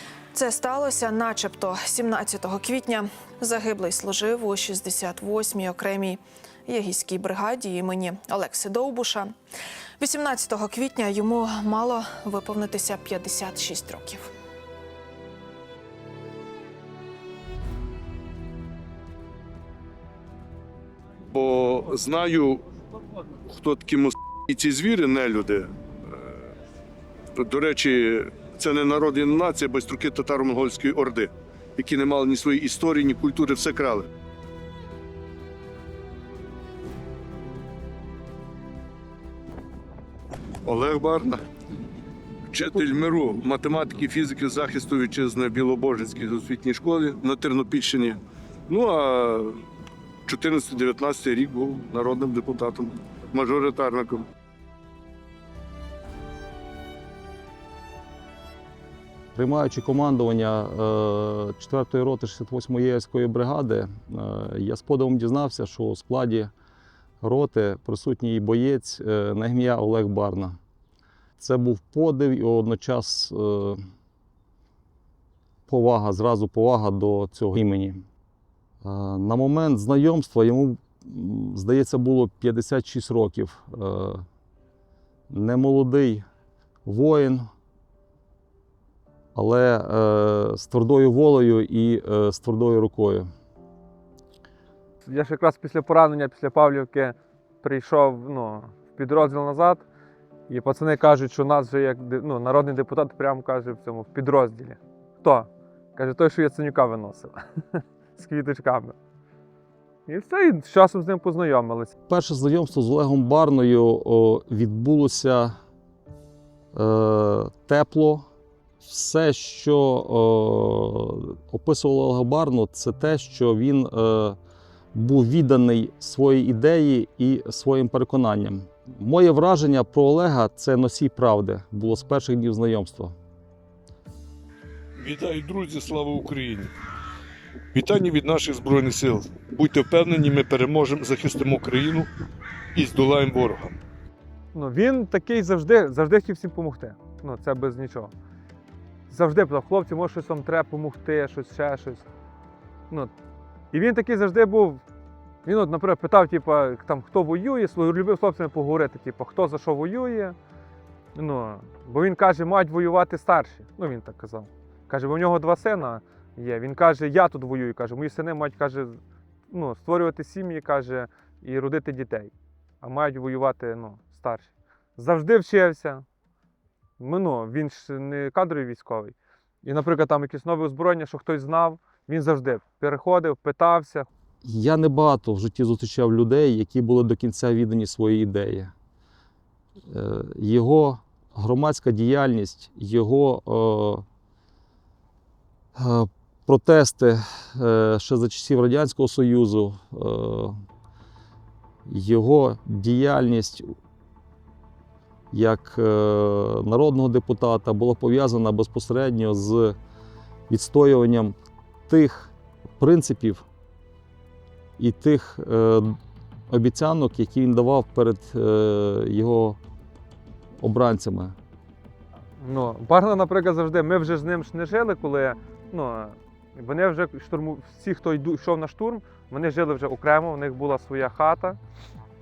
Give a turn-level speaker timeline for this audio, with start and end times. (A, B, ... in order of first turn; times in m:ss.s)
0:00.3-0:09.4 A
0:10.0-0:14.3 A
0:21.3-0:22.6 B
0:23.5-0:25.7 B
0:27.4-0:34.1 B
0:40.6-0:41.4 B
0:42.5-0:49.6 B
0:50.3-0:54.3 B
0:59.4-1:06.5 C
1:07.2-1:10.6 C
1:11.4-1:13.8 C
1:15.7-1:18.1 C
1:18.8-1:24.2 C
1:25.3-1:26.2 C
1:26.9-1:27.4 C
1:29.4-1:33.3 C
1:35.0-1:39.8 D
1:40.5-1:49.0 D
1:50.1-1:51.9 D
1:52.1-1:55.6 C
1:56.7-1:58.3 C
1:58.8-2:04.4 C
2:04.9-2:13.2 C
2:15.0-2:16.7 B
2:17.7-2:22.1 B
2:22.7-2:23.8 B
2:24.5-2:28.1 D
2:29.1-2:32.1 D
2:33.7-2:34.8 D
2:35.4-2:40.4 D
2:41.2-2:56.0 D
2:57.0-3:04.1 D
3:04.4-3:08.7 C
3:09.9-3:14.0 C
3:15.8-3:20.6 C
3:21.9-3:23.7 C
3:25.3-3:29.8 C
3:30.5-3:31.4 C
3:31.9-3:33.5 C
3:34.8-3:36.0 C
3:36.5-3:39.6 C
3:40.6-3:41.4 C
3:42.4-3:51.6 D